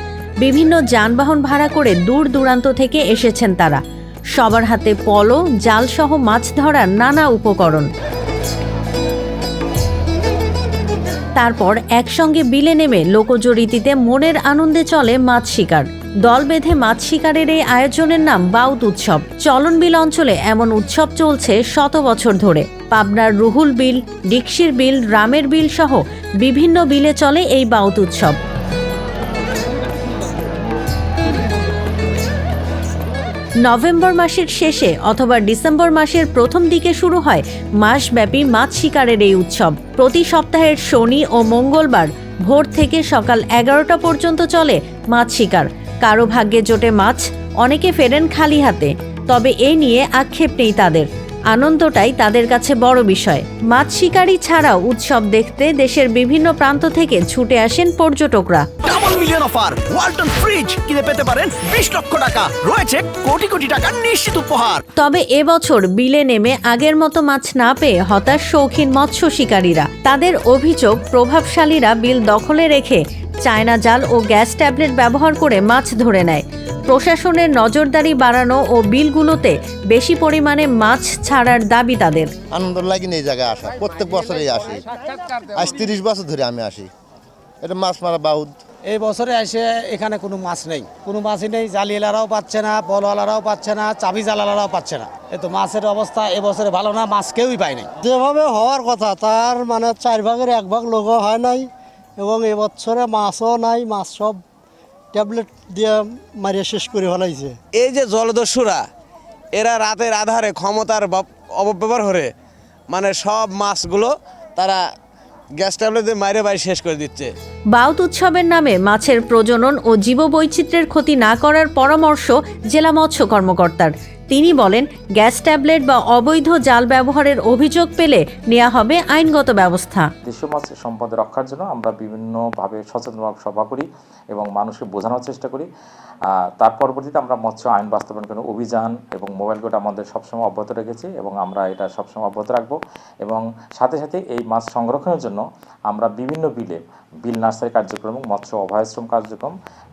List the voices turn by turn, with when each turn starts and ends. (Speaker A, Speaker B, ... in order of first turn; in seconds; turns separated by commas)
Speaker A: 0.4-3.8, Speaker A: 4.4-7.9, Speaker A: 11.4-28.4, Speaker A: 33.6-58.7, Speaker B: 58.8-64.8, Speaker A: 65.0-82.3, Speaker C: 82.5-84.9, Speaker C: 85.5-86.9, Speaker C: 87.6-88.5, Speaker D: 88.9-97.9, Speaker E: 98.0-104.4, Speaker E: 105.1-107.6, Speaker F: 107.7-108.9, Speaker F: 109.5-112.3, Speaker F: 112.9-114.8, Speaker F: 115.6-117.3, Speaker A: 117.7-130.1, Speaker G: 130.2-135.7, Speaker G: 136.6-149.5